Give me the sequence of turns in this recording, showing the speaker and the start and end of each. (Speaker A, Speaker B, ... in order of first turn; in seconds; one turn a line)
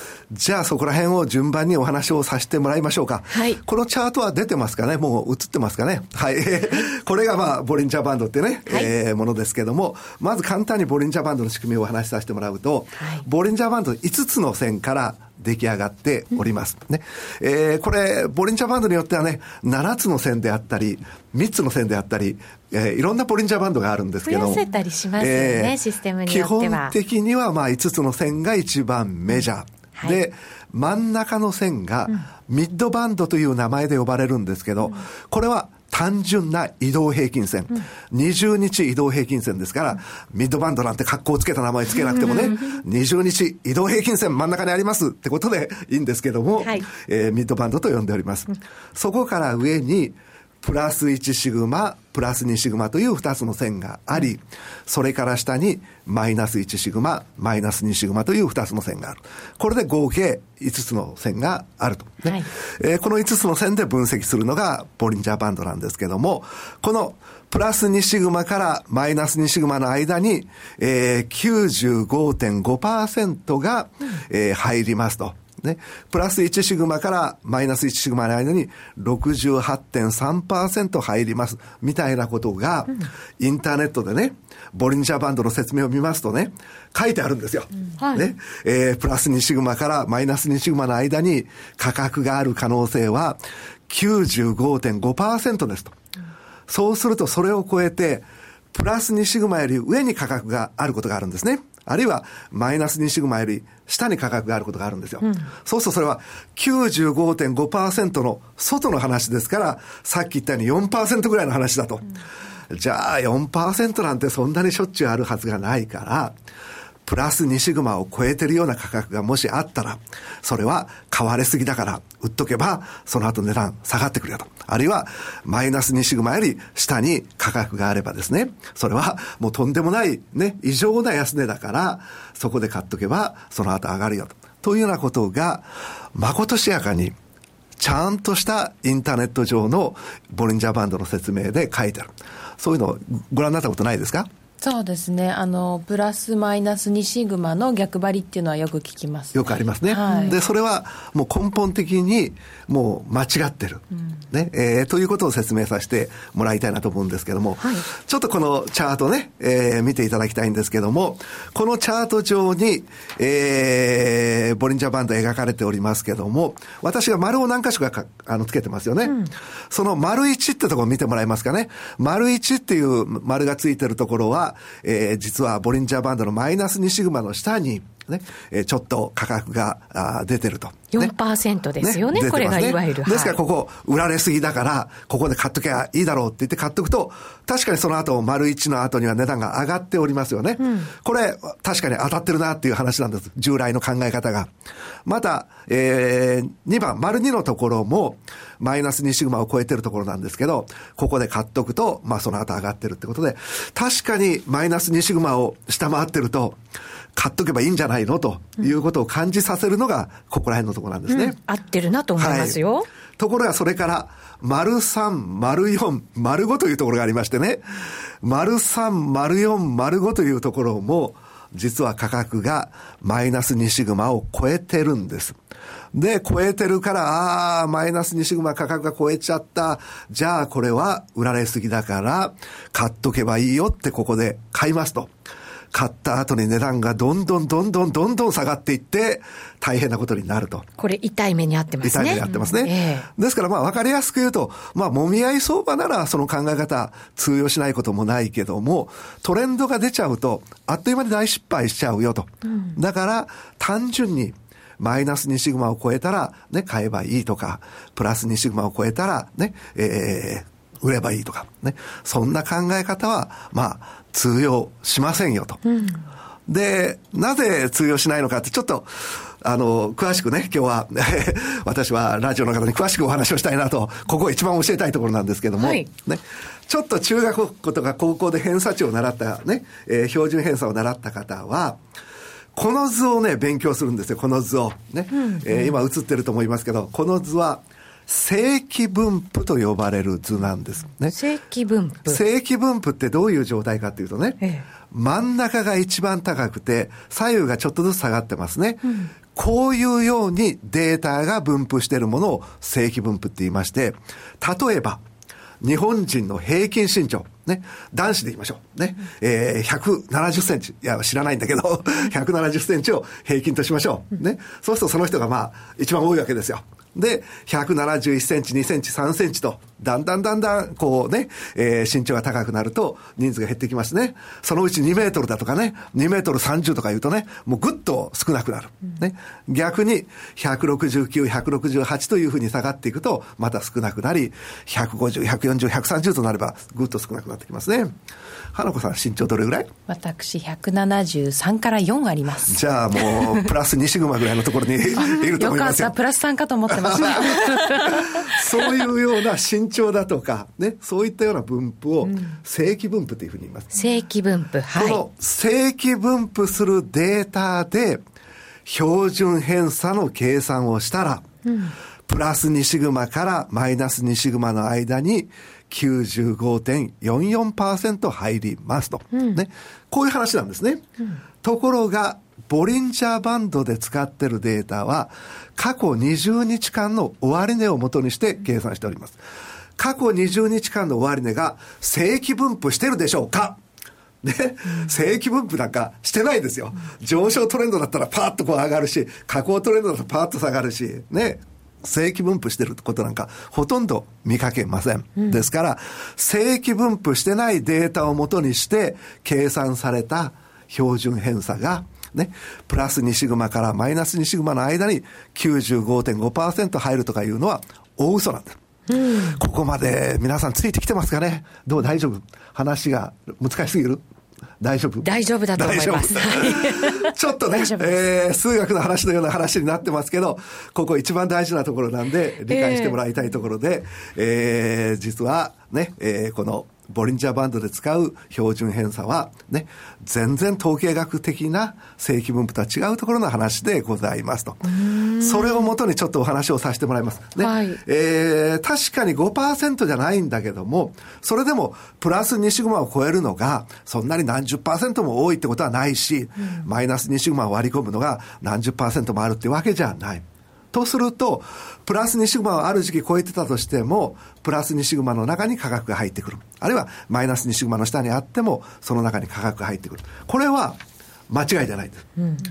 Speaker A: 0.3-24.6
Speaker B: 3.3-3.6
Speaker B: 13.0-13.2
Speaker B: 24.2-26.9
Speaker A: 25.2-96.0
Speaker B: 42.0-42.8
Speaker B: 46.6-46.9
Speaker B: 88.0-88.3
Speaker A: 96.7-112.1
Speaker B: 105.2-105.5
Speaker A: 112.7-116.4
Speaker A: 117.0-137.2
Speaker A: 137.8-144.3
Speaker C: 144.6-150.3
Speaker A: 149.3-181.1
Speaker B: 169.0-169.3
Speaker B: 180.9-183.4
Speaker A: 181.8-194.5
Speaker B: 190.6-190.9
Speaker A: 195.0-206.6
Speaker A: 207.1-211.4
Speaker B: 211.1-212.9
Speaker A: 212.2-212.6
Speaker A: 213.2-225.4
Speaker A: 225.9-235.1
Speaker A: 235.7-240.7
Speaker B: 240.8-243.1
Speaker A: 241.8-265.6
Speaker B: 252.4-252.8
Speaker B: 265.6-266.0
Speaker A: 266.5-281.8
Speaker B: 275.6-275.9
Speaker A: 282.5-291.2
Speaker B: 285.1-285.8
Speaker B: 291.1-292.2
Speaker A: 292.1-305.0
Speaker A: 305.6-337.9
Speaker A: 338.5-339.7
Speaker C: 339.9-342.6
Speaker A: 342.5-345.9
Speaker C: 345.1-348.5
Speaker A: 346.7-353.7
Speaker B: 353.7-355.0
Speaker A: 354.7-358.0
Speaker A: 358.6-361.3
Speaker B: 361.4-361.7
Speaker A: 362.1-370.9
Speaker B: 369.1-369.4
Speaker A: 371.4-379.2
Speaker A: 379.8-383.6
Speaker A: 384.2-408.6
Speaker B: 395.2-395.4
Speaker B: 408.9-409.4
Speaker A: 409.3-414.0
Speaker A: 414.6-462.1
Speaker B: 415.0-417.9
Speaker B: 422.5-423.0
Speaker B: 434.7-435.7
Speaker B: 437.4-437.8